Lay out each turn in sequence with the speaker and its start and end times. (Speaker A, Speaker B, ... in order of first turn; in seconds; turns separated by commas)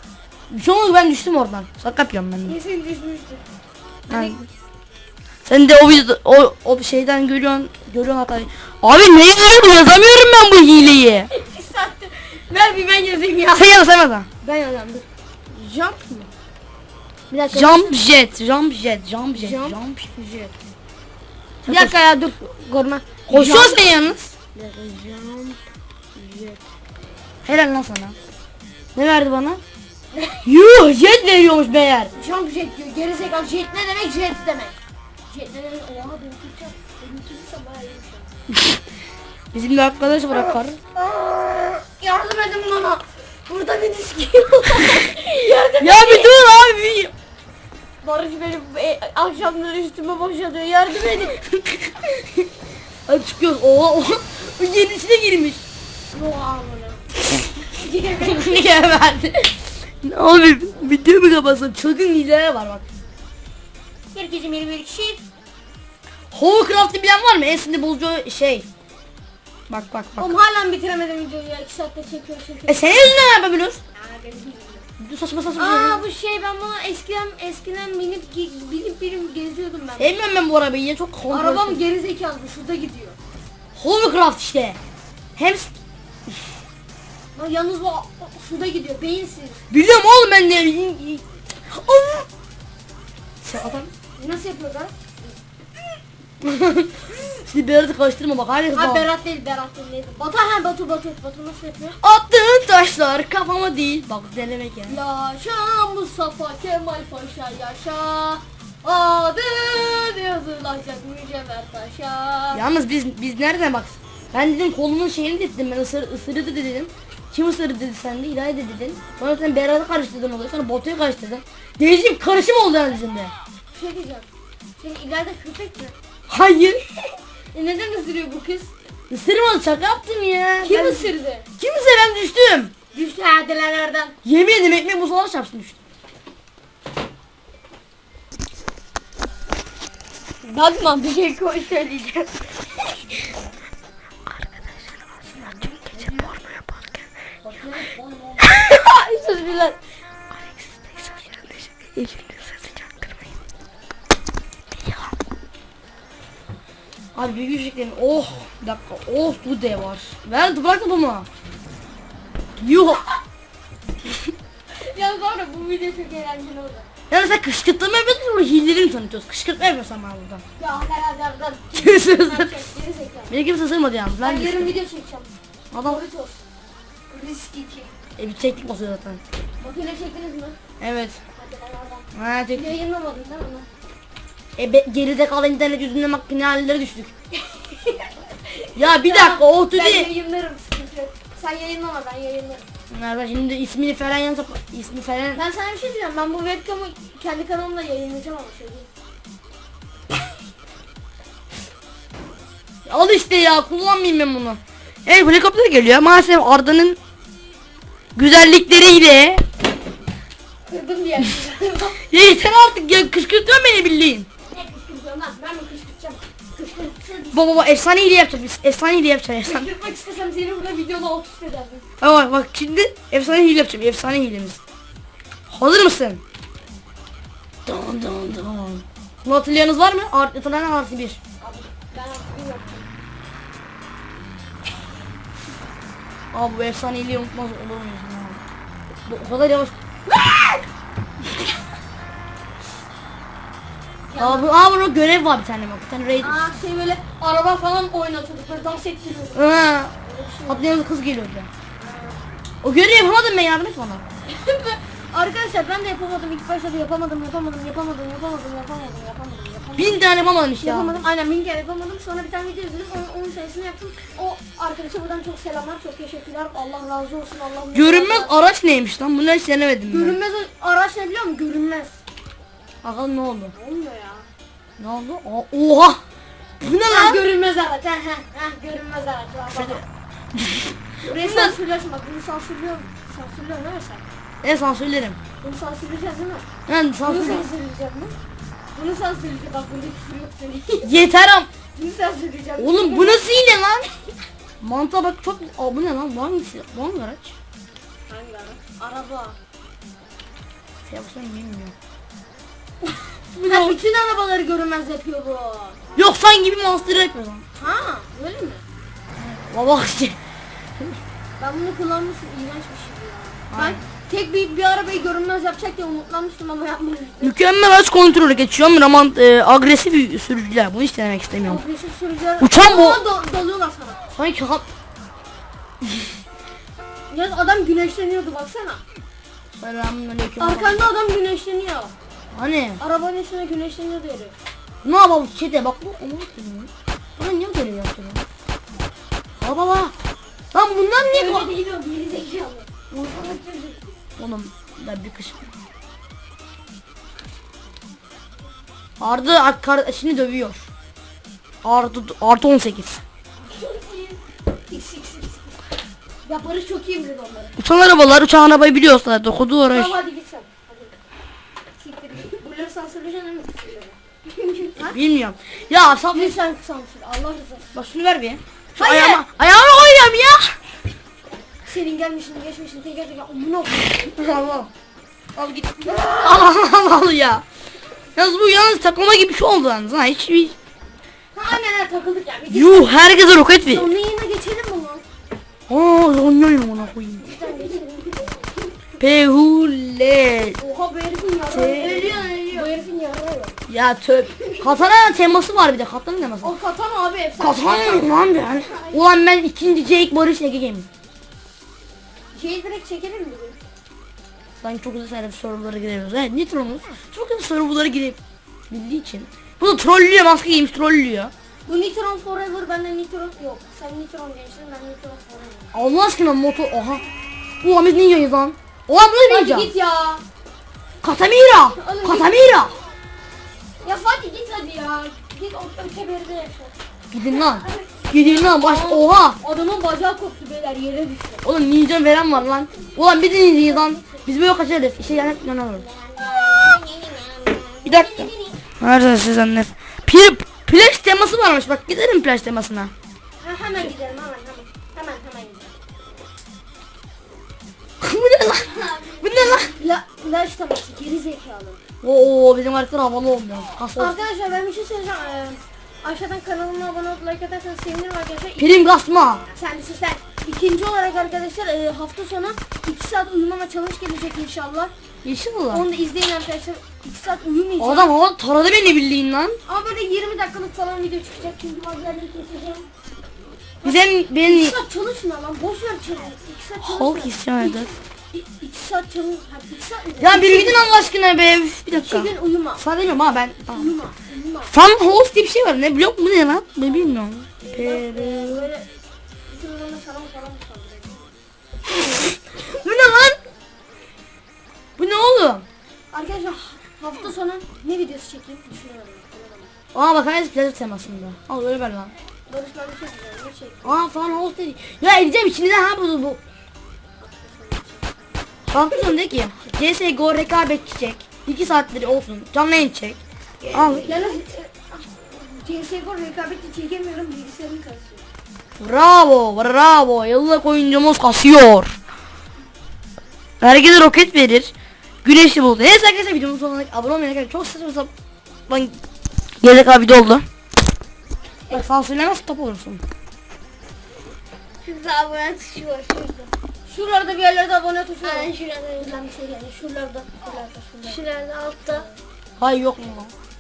Speaker A: 0.5-2.6, Speaker B: 2.5-3.5, Speaker B: 4.1-4.4, Speaker A: 4.1-4.5, Speaker A: 5.5-11.3, Speaker B: 11.3-13.8, Speaker A: 13.5-14.3, Speaker B: 14.4-16.3, Speaker B: 17.3-18.0, Speaker A: 17.5-20.3, Speaker B: 19.4-19.8, Speaker A: 21.6-22.0, Speaker B: 21.6-23.8, Speaker A: 23.3-24.4, Speaker B: 24.6-25.6, Speaker B: 26.2-26.6, Speaker A: 27.4-28.2, Speaker A: 28.9-29.6, Speaker B: 30.1-30.5, Speaker A: 30.4-32.1, Speaker B: 32.1-34.7, Speaker B: 35.3-38.3, Speaker A: 38.5-38.8, Speaker A: 39.5-40.8, Speaker B: 40.5-46.4, Speaker A: 45.8-47.1, Speaker B: 48.0-51.4, Speaker A: 51.4-52.5, Speaker A: 53.1-55.6, Speaker B: 56.1-58.7, Speaker A: 58.1-62.8, Speaker B: 64.1-65.2, Speaker A: 66.3-68.7, Speaker A: 69.7-70.3, Speaker B: 70.2-73.2, Speaker A: 72.7-73.8, Speaker B: 74.0-74.8, Speaker A: 75.0-76.0, Speaker B: 75.6-80.2, Speaker A: 80.0-81.8, Speaker B: 81.3-83.2, Speaker A: 83.8-84.8, Speaker A: 85.4-85.7, Speaker B: 87.3-89.6, Speaker A: 89.7-92.3, Speaker A: 93.4-93.9, Speaker B: 94.2-95.4, Speaker A: 96.4-99.1, Speaker B: 98.7-102.0, Speaker A: 102.0-105.0, Speaker B: 104.9-112.6, Speaker A: 112.5-123.3, Speaker B: 123.7-124.3, Speaker B: 124.8-126.0, Speaker A: 126.3-126.8, Speaker B: 127.5-128.7, Speaker A: 129.1-132.7, Speaker B: 130.6-131.5, Speaker B: 132.9-134.2, Speaker A: 134.2-135.8, Speaker B: 140.4-142.6, Speaker A: 144.6-147.1, Speaker B: 145.5-146.3, Speaker B: 147.4-149.8, Speaker A: 147.7-148.6, Speaker A: 150.6-153.3, Speaker A: 154.8-155.1, Speaker A: 157.2-161.3, Speaker A: 162.6-163.0, Speaker B: 164.7-166.9, Speaker A: 167.1-170.4, Speaker B: 170.6-173.3, Speaker A: 171.8-172.6, Speaker A: 173.3-174.8, Speaker B: 174.2-176.4, Speaker A: 175.7-176.0, Speaker B: 177.1-177.9, Speaker A: 178.2-179.2, Speaker B: 179.6-180.6, Speaker A: 180.8-181.2, Speaker B: 181.4-183.7, Speaker A: 182.1-182.8, Speaker A: 184.6-187.1, Speaker B: 187.3-192.7, Speaker A: 188.8-190.1, Speaker A: 192.9-195.4, Speaker B: 195.3-198.9, Speaker A: 202.9-207.0, Speaker A: 208.2-209.4, Speaker B: 210.7-212.0, Speaker A: 212.0-214.3, Speaker B: 214.5-217.4, Speaker A: 217.3-219.7, Speaker B: 219.4-221.8, Speaker A: 222.0-224.6, Speaker A: 225.5-226.2, Speaker A: 227.7-231.2, Speaker B: 231.4-232.9, Speaker A: 236.3-238.4, Speaker A: 239.1-239.7, Speaker B: 240.1-240.6, Speaker B: 244.1-244.5, Speaker A: 244.2-246.5, Speaker B: 246.2-249.5, Speaker A: 249.3-249.9, Speaker B: 250.0-250.7, Speaker A: 250.5-251.5, Speaker B: 251.8-252.2, Speaker A: 252.6-254.0, Speaker B: 254.2-260.0, Speaker A: 259.8-261.0, Speaker B: 260.6-268.3, Speaker A: 267.7-270.2, Speaker B: 269.9-272.0, Speaker A: 272.8-273.5, Speaker B: 273.6-274.3, Speaker A: 274.8-276.0, Speaker A: 276.6-277.2, Speaker B: 276.8-279.8, Speaker A: 279.5-281.6, Speaker B: 281.0-284.0, Speaker A: 284.4-285.2, Speaker B: 285.4-286.5, Speaker A: 286.7-287.5, Speaker B: 287.0-288.1, Speaker B: 288.8-291.0, Speaker A: 290.8-291.5, Speaker B: 291.7-293.3, Speaker A: 292.6-293.9, Speaker A: 294.6-297.4, Speaker B: 298.1-299.4, Speaker A: 300.9-301.8, Speaker B: 302.8-305.8, Speaker A: 303.4-303.8, Speaker A: 306.0-307.4, Speaker B: 307.6-308.6, Speaker A: 309.2-310.2, Speaker B: 311.4-317.4, Speaker A: 313.5-313.8, Speaker A: 317.2-321.6, Speaker B: 321.4-324.0, Speaker A: 322.4-323.0, Speaker A: 324.1-324.7, Speaker B: 327.1-328.8, Speaker A: 329.5-330.8, Speaker B: 330.4-331.9, Speaker A: 332.3-332.8, Speaker B: 332.8-334.3, Speaker A: 334.8-338.2, Speaker A: 339.4-339.9, Speaker A: 340.5-341.5, Speaker B: 341.0-343.8, Speaker A: 344.2-345.5, Speaker A: 349.0-350.7, Speaker A: 351.6-353.0, Speaker B: 353.4-355.6, Speaker B: 356.2-357.6, Speaker A: 357.6-359.9, Speaker B: 359.7-360.9, Speaker B: 361.8-365.0, Speaker A: 364.9-366.4, Speaker B: 366.1-367.7, Speaker A: 367.7-370.6, Speaker B: 368.8-369.2, Speaker B: 371.7-374.5, Speaker A: 374.1-374.7, Speaker A: 375.4-377.4, Speaker B: 375.9-376.3, Speaker A: 378.2-380.6, Speaker B: 381.3-382.9, Speaker A: 382.5-383.9, Speaker B: 383.7-385.1, Speaker A: 385.7-387.3, Speaker B: 387.2-388.5, Speaker A: 389.0-390.6, Speaker B: 390.6-393.6, Speaker A: 391.5-392.7, Speaker A: 393.7-396.5, Speaker B: 394.4-394.9, Speaker B: 396.4-399.0, Speaker A: 397.4-400.9, Speaker B: 402.3-403.6, Speaker A: 404.6-408.2, Speaker A: 408.7-411.3, Speaker B: 411.7-415.7, Speaker A: 415.7-417.1, Speaker A: 417.6-419.7, Speaker B: 419.2-420.2, Speaker A: 421.0-422.8, Speaker B: 421.7-422.4, Speaker B: 423.8-431.4, Speaker A: 427.1-429.4, Speaker A: 431.4-435.9, Speaker B: 435.8-438.6, Speaker A: 437.9-438.3, Speaker A: 438.8-442.9, Speaker B: 443.4-445.7, Speaker A: 448.0-449.7, Speaker B: 448.7-451.8, Speaker A: 452.0-454.2, Speaker B: 454.0-458.9, Speaker A: 458.6-459.4, Speaker B: 459.5-464.9, Speaker A: 465.2-465.9, Speaker B: 465.7-468.1, Speaker A: 467.8-469.6, Speaker B: 469.7-472.9, Speaker B: 473.8-481.1, Speaker A: 473.8-474.8, Speaker A: 476.8-477.9, Speaker A: 480.2-483.9, Speaker B: 482.0-482.8, Speaker B: 483.7-484.7, Speaker A: 484.7-488.7, Speaker B: 487.6-488.9, Speaker B: 489.5-491.3, Speaker A: 491.9-493.4, Speaker A: 495.0-495.6, Speaker B: 496.1-499.7, Speaker A: 499.9-502.1, Speaker B: 502.5-504.0, Speaker A: 503.8-506.4, Speaker B: 507.2-509.1, Speaker A: 508.7-514.2, Speaker B: 513.7-518.2, Speaker A: 518.8-522.0, Speaker A: 523.6-524.7, Speaker A: 525.2-528.1, Speaker A: 528.7-529.0, Speaker A: 529.6-530.5, Speaker A: 531.7-533.0, Speaker B: 534.9-536.3, Speaker B: 536.9-542.1, Speaker A: 538.3-539.1, Speaker A: 541.0-542.0, Speaker A: 542.6-543.3